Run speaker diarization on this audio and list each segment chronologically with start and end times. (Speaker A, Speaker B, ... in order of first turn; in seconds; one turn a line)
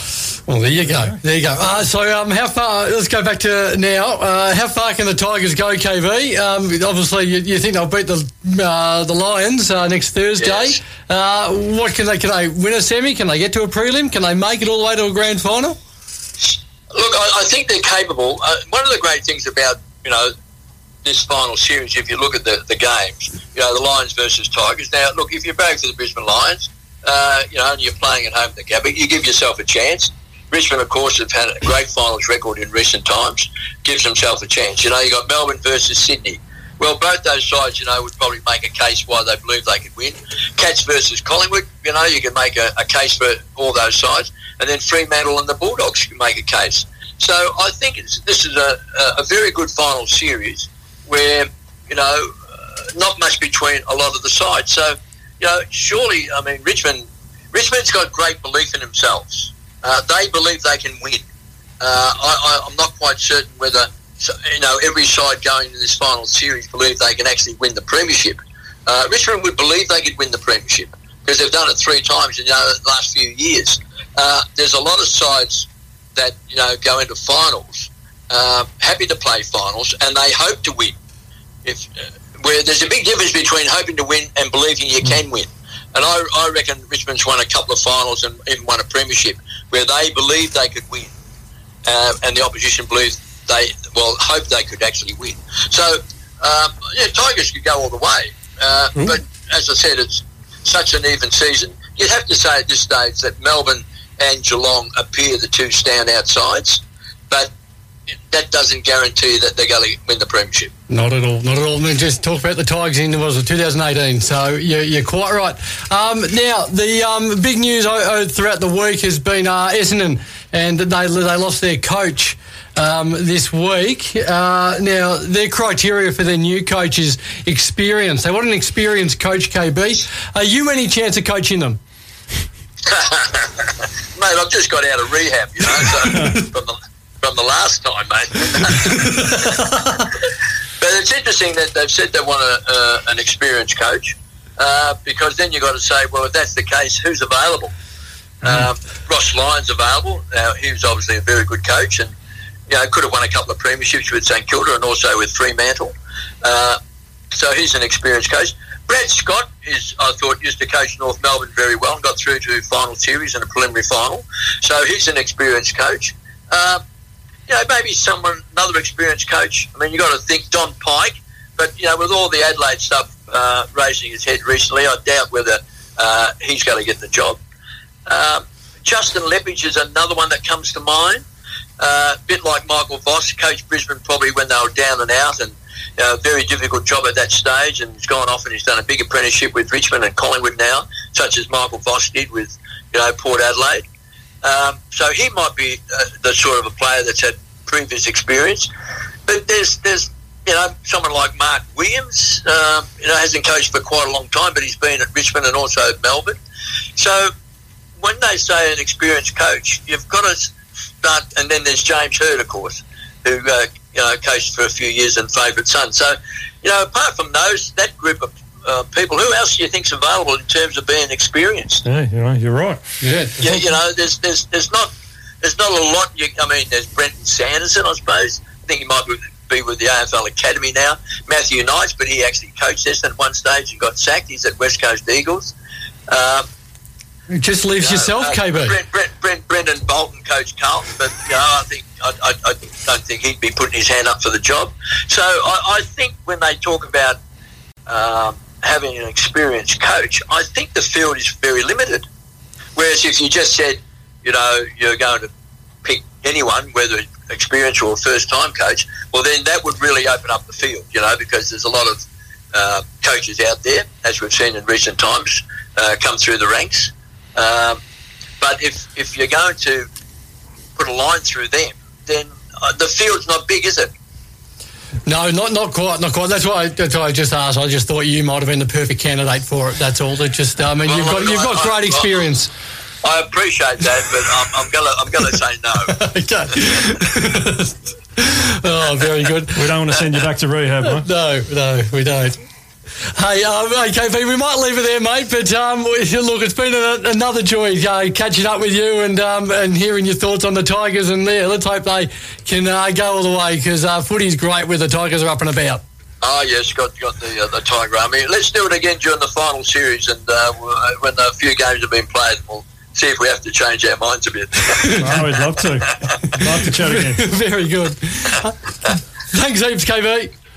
Speaker A: 0.5-15.8
Speaker B: 0.8-1.2
Speaker C: 10.4-10.8
Speaker C: 16.4-20.3
Speaker C: 21.0-61.2
Speaker C: 61.8-81.0
Speaker C: 81.6-91.1
Speaker C: 91.9-107.5
Speaker C: 108.3-110.7
Speaker A: 110.9-131.8
Speaker C: 132.9-139.6
Speaker C: 140.8-147.7
Speaker C: 148.4-152.1
Speaker C: 152.7-156.8
Speaker C: 157.3-166.8
Speaker C: 167.5-177.4
Speaker C: 178.1-181.2
Speaker C: 181.8-193.9
Speaker C: 194.4-198.7
Speaker C: 199.3-206.4
Speaker C: 207.0-207.3
Speaker C: 208.0-221.8
Speaker B: 221.8-222.8
Speaker A: 223.0-223.6
Speaker C: 223.4-224.9
Speaker C: 225.4-235.6
Speaker C: 236.1-236.4
Speaker A: 237.3-238.8
Speaker C: 237.8-247.2
Speaker C: 247.9-252.0
Speaker C: 252.8-255.3
Speaker C: 255.8-267.8
Speaker C: 268.4-269.9
Speaker C: 270.8-273.9
Speaker A: 275.1-282.5
Speaker C: 280.8-282.2
Speaker C: 283.0-285.9
Speaker A: 285.9-289.7
Speaker B: 289.6-291.1
Speaker A: 290.8-292.4
Speaker A: 293.1-305.8
Speaker C: 306.2-315.1
Speaker A: 314.8-315.1
Speaker B: 315.0-317.3
Speaker A: 316.3-320.3